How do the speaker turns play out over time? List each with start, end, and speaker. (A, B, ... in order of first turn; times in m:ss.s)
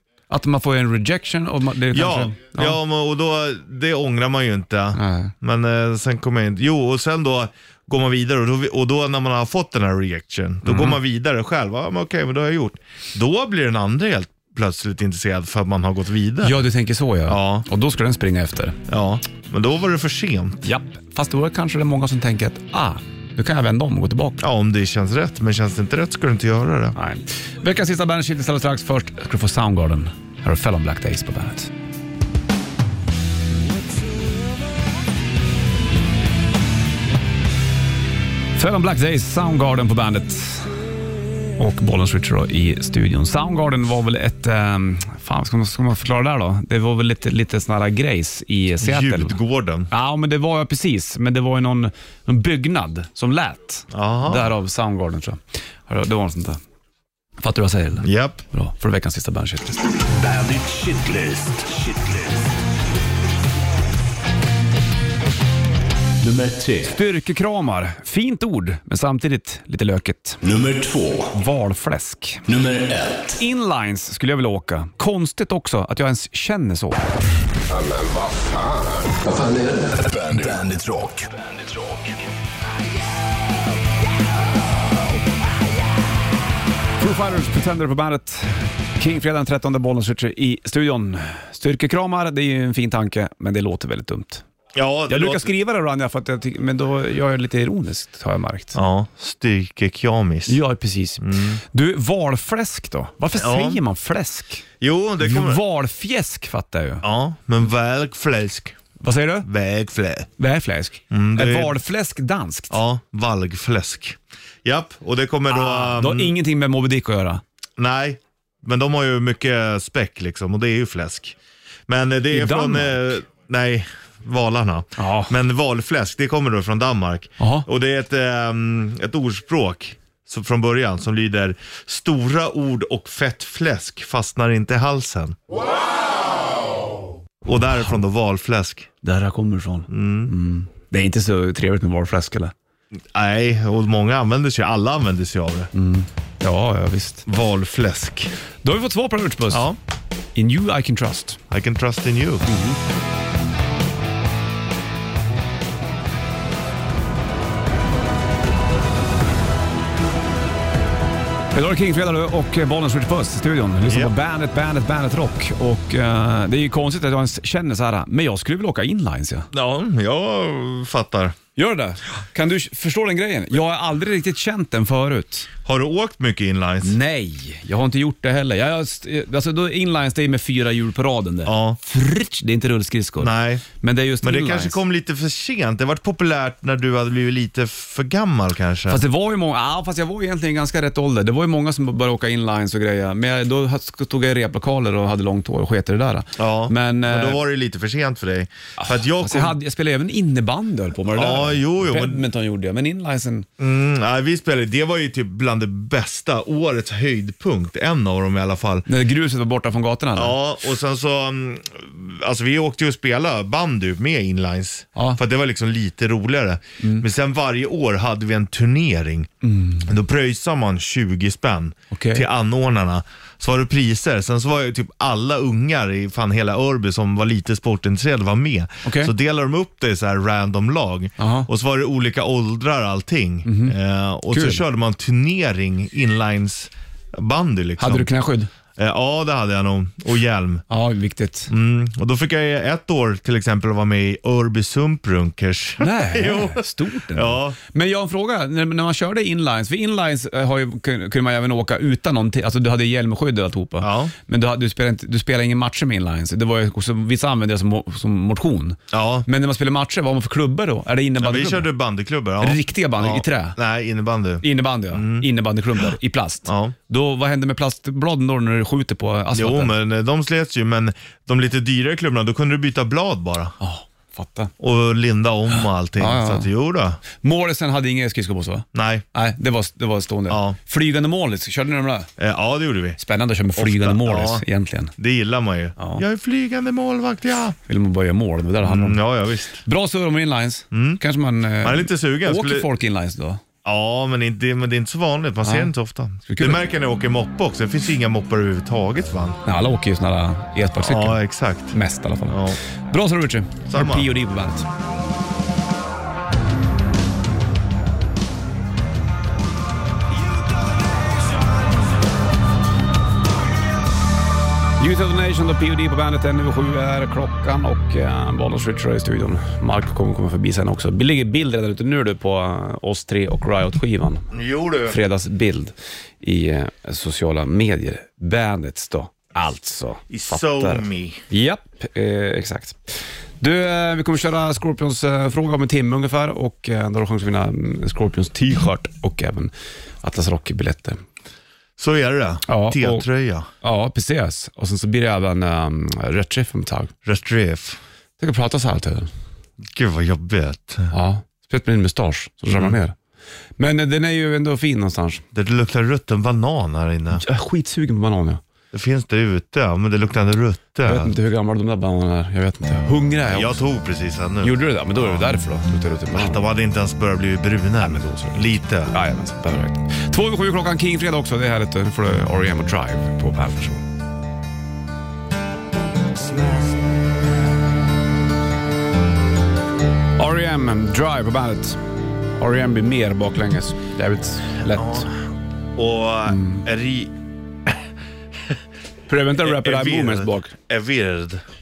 0:00.3-0:02.8 A
0:01.9-0:16.6 B
0:04.9-0:05.3 A
0:10.6-0:11.0 A
0:16.4-0:18.8 A
0:17.3-0:17.7 B
0:18.9-0:20.7 B
0:20.6-0:24.4 A
0:24.4-0:27.0 B
0:27.0-0:31.7 A
0:38.5-0:40.7 A
0:41.6-0:49.4 A
0:48.8-0:49.9 B
0:49.9-0:56.6 A
0:53.9-0:54.5 B
0:57.4-0:59.8 A
0:58.0-0:58.4 B
1:00.1-1:02.5 C
1:06.2-1:06.9 C
1:06.8-1:10.4 A
1:10.4-1:11.3 C
1:11.3-1:12.5 A
1:12.5-1:13.4 C
1:13.3-1:17.0 A
1:17.7-1:22.2 C
1:27.0-1:34.4 A
1:34.7-1:35.5 B
1:35.1-1:38.8 A
1:38.7-1:40.6 B
1:40.5-1:44.6 A
1:41.2-1:41.6 B
1:43.3-1:43.8 B
1:44.8-1:45.6 B
1:45.2-1:47.0 A
1:47.0-1:48.8 B
1:49.0-1:49.5 A
1:49.4-1:50.3 B
1:50.4-1:52.8 A
1:51.1-1:51.8 B
1:52.7-1:56.3 B
1:55.5-1:57.4 A
1:57.8-2:01.3 B
2:01.9-2:15.4 B
2:02.3-2:03.1 A
2:05.0-2:05.4 A
2:07.4-2:07.7 A
2:17.4-2:18.9 B
2:19.0-2:22.5 A
2:19.9-2:20.3 B
2:23.1-2:25.7 B
2:25.7-2:27.3 A
2:27.2-2:28.3 B
2:28.6-2:29.7 A
2:29.5-2:29.8 B
2:30.3-2:31.4 A
2:31.5-2:32.4 B
2:32.4-2:32.8 A
2:41.5-2:49.5 A
2:43.8-2:44.1 B
2:49.5-2:51.4 B
2:51.6-2:55.5 A
2:55.6-2:57.0 B
2:56.8-3:04.8 A
3:01.4-3:01.8 B
3:03.2-3:03.7 B
3:04.2-3:09.0 B
3:08.9-3:17.4 A
3:16.4-3:19.6 B
3:18.8-3:23.5 A
3:21.1-3:22.2 B
3:23.6-3:28.9 B
3:28.9-3:30.4 A
3:30.1-3:39.3 B
3:39.4-3:39.8 A
3:39.8-3:58.1 B
3:41.9-3:42.2 A
3:48.8-3:49.1 A
3:51.2-3:51.5 A
3:53.4-3:53.7 A
3:54.3-3:54.6 A
3:57.8-3:58.5 A
3:58.8-4:00.6 B
4:00.7-4:01.5 A
4:01.5-4:07.6 B
4:05.8-4:21.7 A
4:13.8-4:14.1 B
4:18.9-4:19.3 B
4:21.2-4:25.3 B
4:22.4-4:23.6 A
4:24.4-4:29.7 A
4:26.4-4:26.7 B
4:29.3-4:33.6 B
4:33.6-4:34.5 A
4:34.6-4:37.0 B
4:36.0-4:36.5 A
4:37.2-4:42.1 A
4:38.7-4:39.0 B
4:40.3-4:40.6 B
4:42.2-4:43.0 B
4:43.0-4:44.9 A
4:43.6-4:44.4 B
4:45.0-4:47.6 B
4:45.8-4:46.0 A
4:47.7-4:49.0 A
4:48.6-4:49.6 B
4:49.6-4:53.4 A
4:50.7-4:51.0 B
4:51.6-4:52.7 B
4:53.6-4:59.4 B
4:55.4-4:55.7 A
4:56.2-4:56.6 A
4:59.4-5:04.7 A
5:00.8-5:01.8 B
5:02.3-5:02.6 B
5:03.7-5:04.1 B
5:14.8-5:24.3 A
5:24.3-5:25.0 B
5:24.8-5:41.0 A
5:30.1-5:31.2 B
5:41.8-5:43.5 B
5:42.5-5:43.0 A
5:43.6-5:46.9 A
5:47.0-5:47.8 B
5:48.2-5:49.1 A
5:49.7-5:50.9 B
5:50.9-5:52.9 A
5:53.6-5:55.2 A
5:55.3-5:57.2 B
5:57.1-5:58.4 A
5:58.7-6:01.1 B
6:00.8-6:03.6 A
6:03.3-6:05.4 B
6:04.4-6:06.4 A
6:06.1-6:08.9 B
6:07.8-6:13.8 A
6:20.2-6:21.8 A
6:22.4-6:25.1 A
6:24.7-6:25.2 B
6:25.7-6:27.1 B
6:26.3-6:26.6 A
6:29.1-6:30.5 A
6:29.4-6:31.4 B